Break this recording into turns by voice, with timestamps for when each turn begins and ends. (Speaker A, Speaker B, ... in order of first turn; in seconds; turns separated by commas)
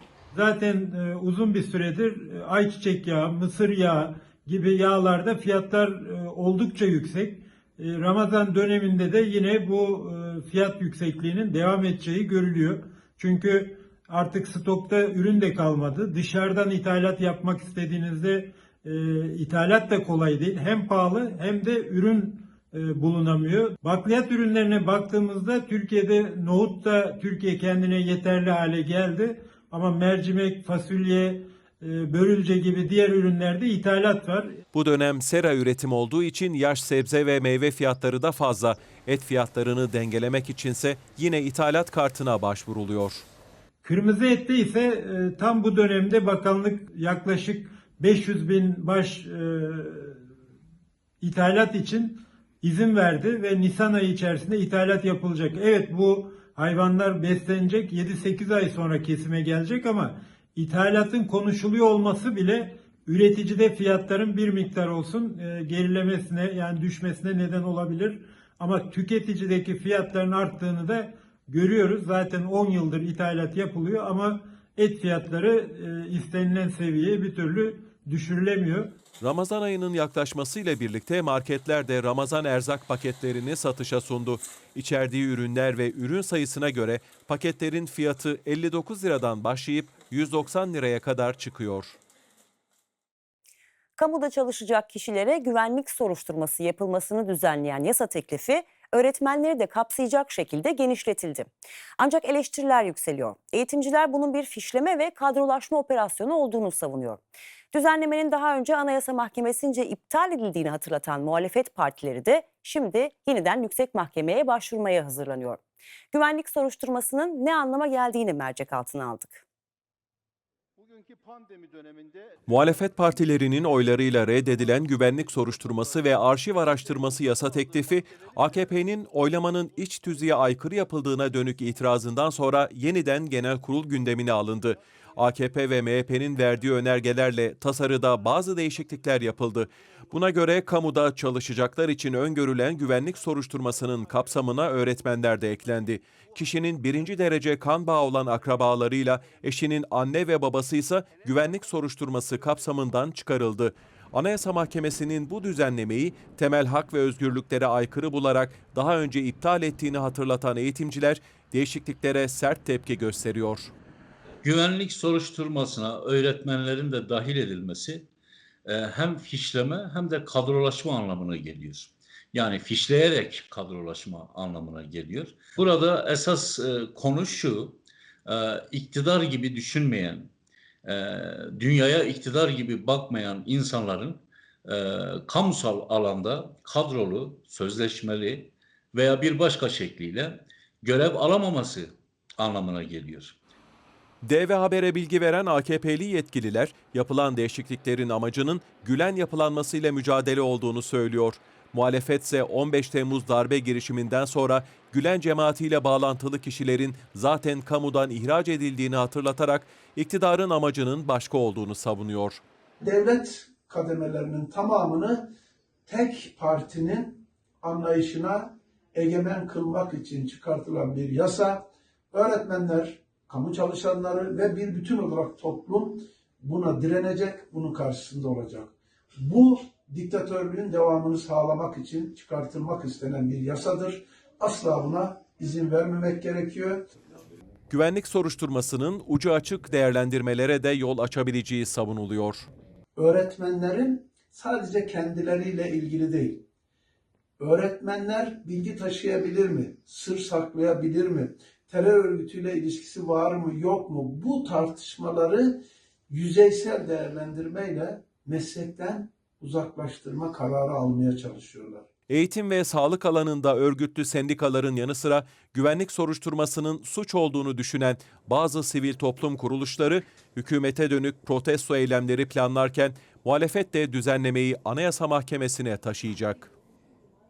Speaker A: 0.3-34.6, Speaker B: 34.7-43.2, Speaker A: 43.8-50.2, Speaker A: 51.2-79.0, Speaker B: 79.2-92.0, Speaker C: 94.0-107.2, Speaker C: 107.7-115.6, Speaker C: 116.1-119.4, Speaker B: 122.5-163.7, Speaker D: 164.4-168.1, Speaker D: 168.7-180.3, Speaker D: 180.8-193.4, Speaker B: 194.2-212.4, Speaker E: 212.8-215.3, Speaker E: 215.9-236.9, Speaker B: 237.7-242.5, Speaker E: 242.9-246.4, Speaker E: 247.4-261.9, Speaker B: 262.1-276.5